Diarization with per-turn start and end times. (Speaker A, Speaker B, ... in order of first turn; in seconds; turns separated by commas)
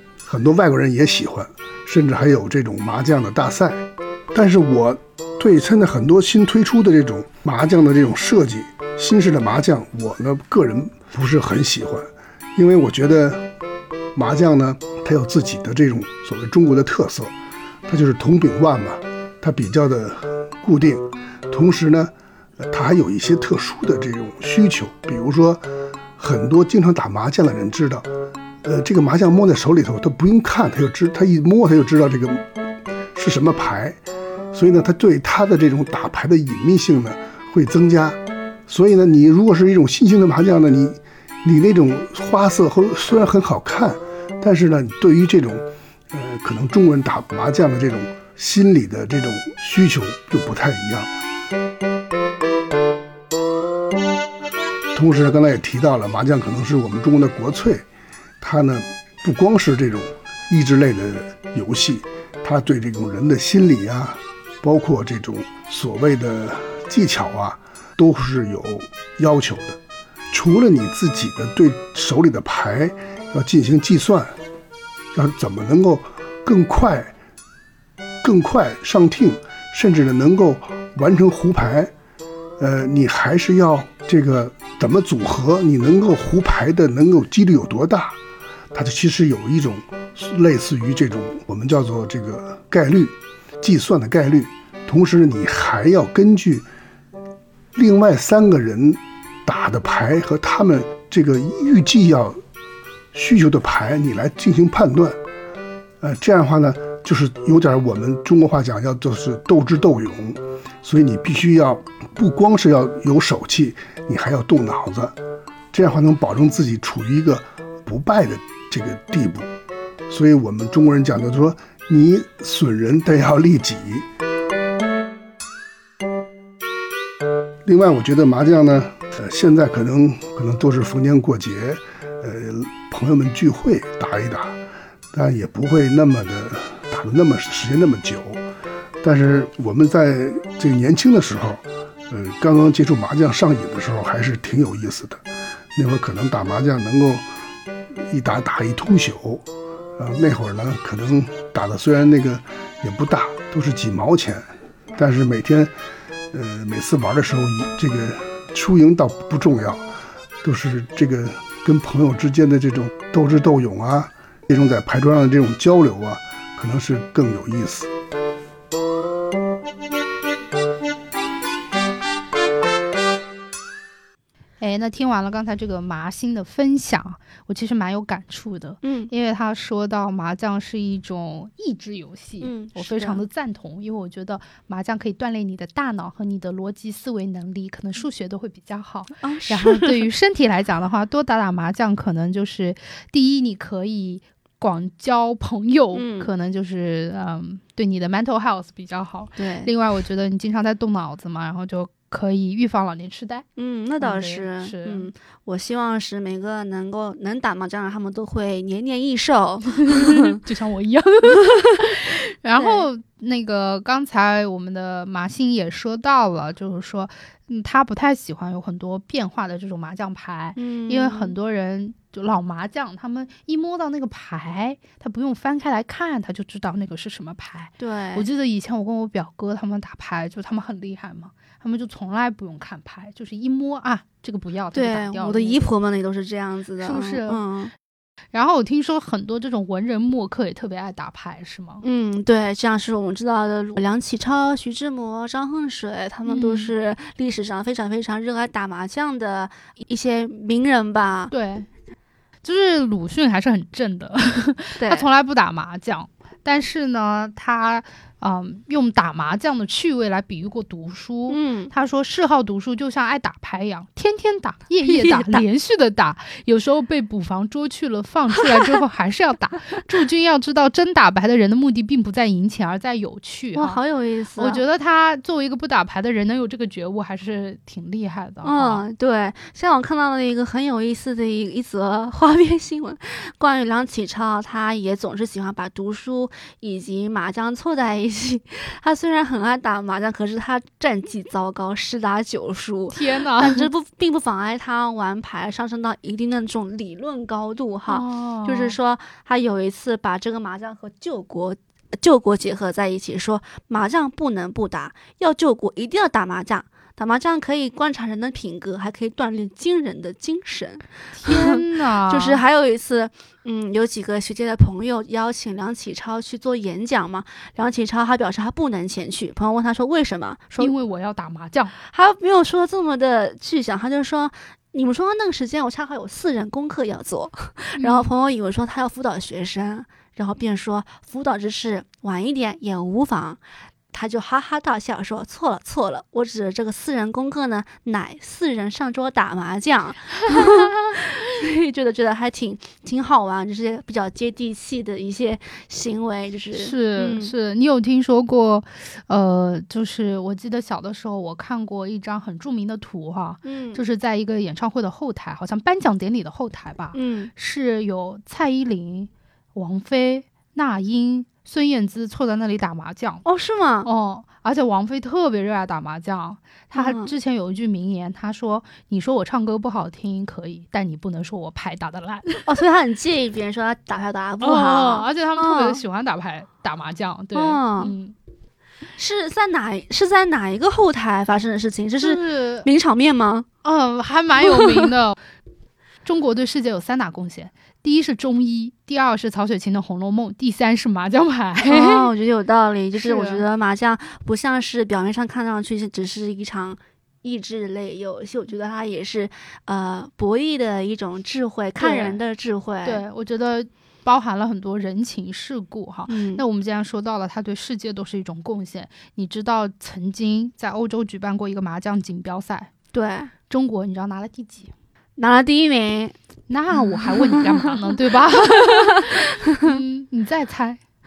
Speaker A: 0.2-13.5, Speaker A: 14.1-17.3, Speaker A: 17.9-25.6, Speaker A: 26.2-28.1, Speaker A: 28.6-32.4, Speaker A: 33.1-34.0, Speaker A: 34.5-51.1, Speaker A: 54.9-57.8, Speaker A: 58.4-69.8, Speaker A: 70.3-74.3, Speaker A: 75.1-77.1, Speaker A: 78.2-81.9, Speaker A: 82.6-88.2, Speaker A: 88.7-96.7, Speaker A: 97.7-102.4, Speaker A: 103.1-105.2, Speaker A: 106.0-115.2, Speaker A: 115.7-119.5, Speaker A: 120.1-124.1, Speaker A: 127.6-134.6, Speaker A: 135.1-138.4, Speaker A: 139.0-145.2, Speaker A: 145.7-147.2, Speaker A: 147.9-149.4, Speaker A: 150.0-155.7, Speaker A: 156.3-159.9, Speaker A: 160.4-167.9, Speaker B: 174.6-203.4, Speaker C: 178.8-179.1, Speaker C: 182.4-183.2, Speaker C: 189.2-190.1, Speaker C: 195.9-196.3, Speaker C: 199.4-199.7, Speaker C: 203.6-210.3, Speaker B: 204.0-205.1, Speaker B: 209.8-235.7, Speaker C: 212.6-212.8, Speaker C: 220.6-221.3, Speaker C: 227.8-228.3, Speaker C: 234.7-237.7, Speaker B: 236.8-237.4, Speaker B: 238.3-241.8, Speaker C: 241.8-251.3, Speaker B: 246.2-246.7, Speaker B: 251.3-251.7, Speaker B: 252.4-273.8, Speaker C: 254.8-255.1, Speaker C: 261.3-261.7, Speaker C: 264.8-265.4, Speaker C: 273.5-274.6, Speaker B: 274.4-278.8, Speaker C: 278.4-320.7, Speaker B: 292.9-293.7, Speaker B: 297.9-298.8, Speaker B: 311.1-312.4, Speaker B: 320.6-321.7, Speaker C: 321.8-333.4, Speaker B: 327.8-328.1, Speaker C: 333.9-347.3, Speaker B: 340.3-340.7, Speaker B: 346.5-363.2, Speaker C: 353.4-353.8, Speaker C: 356.9-357.3, Speaker C: 363.2-363.9, Speaker B: 363.8-372.5, Speaker C: 366.7-367.1, Speaker C: 372.4-375.8, Speaker B: 374.4-378.1, Speaker C: 377.3-377.9, Speaker C: 378.9-383.4, Speaker B: 382.0-382.7, Speaker B: 383.6-385.2, Speaker B: 386.0-392.1, Speaker C: 391.6-403.0, Speaker B: 392.9-393.4, Speaker B: 401.8-402.2, Speaker B: 402.8-412.7, Speaker C: 406.1-406.4, Speaker C: 412.9-413.3, Speaker B: 413.5-414.7, Speaker C: 415.2-416.1, Speaker B: 416.5-420.8, Speaker C: 416.9-417.7, Speaker C: 418.4-419.7